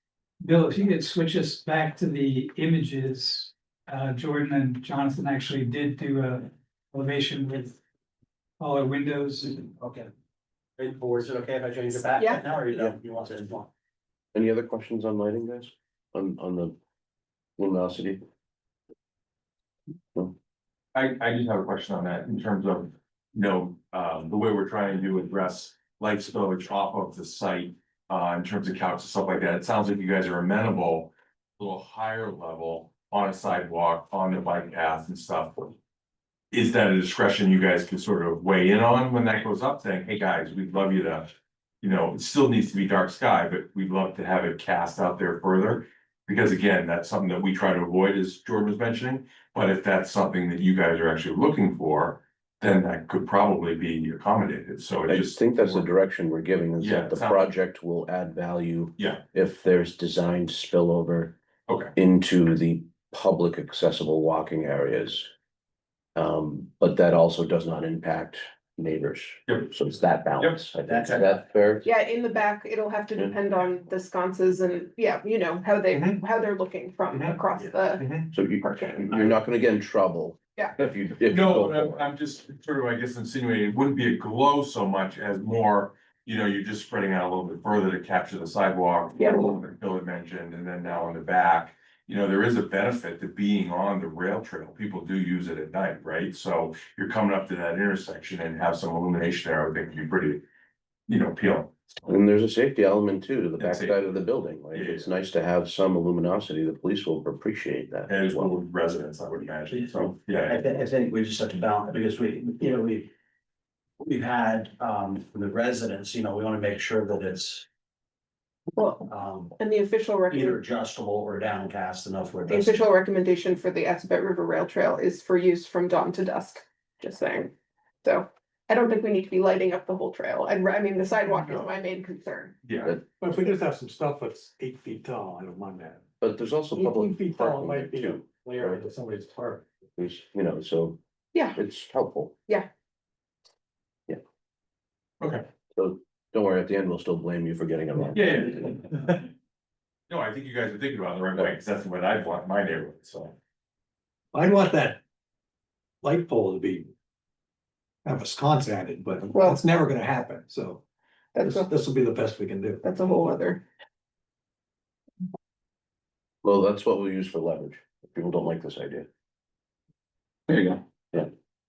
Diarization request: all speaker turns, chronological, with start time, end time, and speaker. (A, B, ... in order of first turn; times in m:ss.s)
0:00.4-0:07.8 A
0:08.6-0:09.6 A
0:09.8-0:10.1 B
0:10.8-0:13.7 B
0:12.2-0:12.4 C
0:14.3-0:16.8 D
0:17.6-0:18.2 D
0:21.0-0:35.8 E
0:36.5-0:55.9 E
0:55.1-1:01.4 D
0:56.8-0:57.5 E
0:59.0-0:59.2 E
1:01.7-1:01.9 E
1:02.0-1:05.3 D
1:06.2-1:11.9 D
1:10.4-1:11.2 E
1:10.8-1:11.4 B
1:11.8-1:18.1 C
1:15.9-1:16.2 E
1:18.0-1:18.3 E
1:18.3-1:22.1 D
1:18.6-1:19.3 C
1:21.3-1:40.4 E
1:29.2-1:29.4 C
1:41.1-1:41.8 E
1:42.1-1:48.5 D
1:43.6-1:44.0 E
1:44.7-1:45.1 E
1:48.1-1:50.6 E
1:50.5-1:53.1 B
1:54.0-1:57.7 B
1:58.8-1:59.1 C
1:59.1-1:59.6 B
1:59.6-2:00.6 C
2:00.3-2:02.8 B
2:02.5-2:07.5 C
2:08.0-2:12.5 C
2:12.6-2:12.9 E
2:13.2-2:16.1 F
2:16.2-2:18.8 D
2:16.8-2:19.7 F
2:20.0-2:21.0 D
2:21.6-2:22.4 D
2:25.8-2:28.8 D
2:28.1-2:29.1 E
2:30.1-2:33.3 E
2:34.3-2:35.0 F
2:36.0-2:36.9 F
2:38.0-2:40.8 F
2:39.3-2:39.6 C
2:41.4-2:41.7 C
2:41.4-2:42.8 F
2:42.8-2:43.6 C
2:46.4-2:49.1 D